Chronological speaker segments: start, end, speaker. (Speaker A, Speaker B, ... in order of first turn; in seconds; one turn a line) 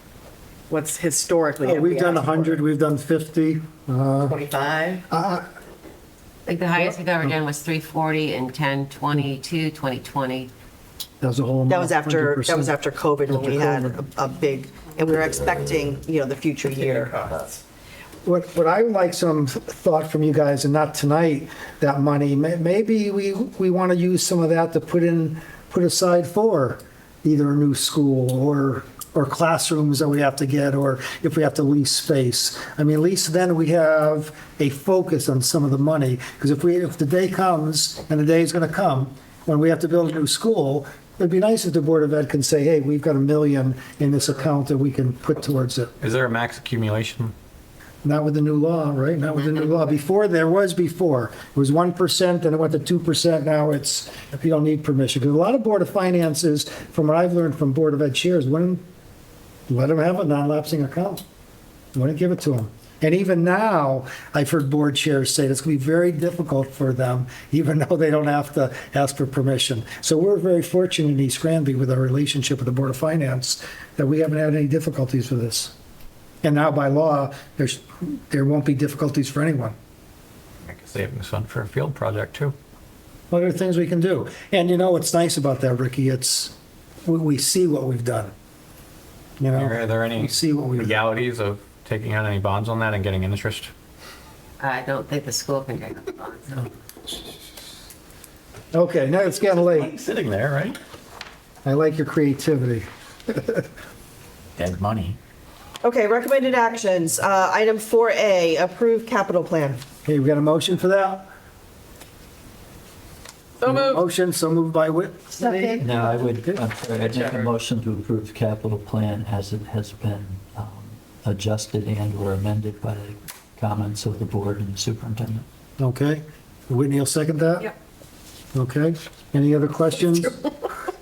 Speaker A: 0.8-2.2
Speaker B: 1.6-4.4
Speaker A: 4.3-4.7
Speaker B: 5.1-5.5
Speaker C: 6.5-10.5
Speaker B: 11.2-12.7
Speaker A: 11.7-17.5
Speaker B: 13.3-14.0
Speaker B: 18.2-45.9
Speaker D: 46.0-47.3
Speaker B: 48.0-58.8
Speaker B: 59.7-61.2
Speaker B: 61.9-75.7
Speaker B: 76.4-79.7
Speaker D: 80.6-82.5
Speaker B: 83.3-86.5
Speaker B: 87.0-88.3
Speaker B: 89.4-90.9
Speaker D: 89.5-93.7
Speaker C: 94.6-96.7
Speaker B: 98.7-99.9
Speaker D: 99.5-100.8
Speaker B: 101.6-103.7
Speaker D: 104.6-105.2
Speaker A: 105.8-109.8
Speaker B: 110.0-111.3
Speaker B: 113.6-115.9
Speaker E: 115.8-125.4
Speaker B: 125.8-127.7
Speaker B: 128.5-130.4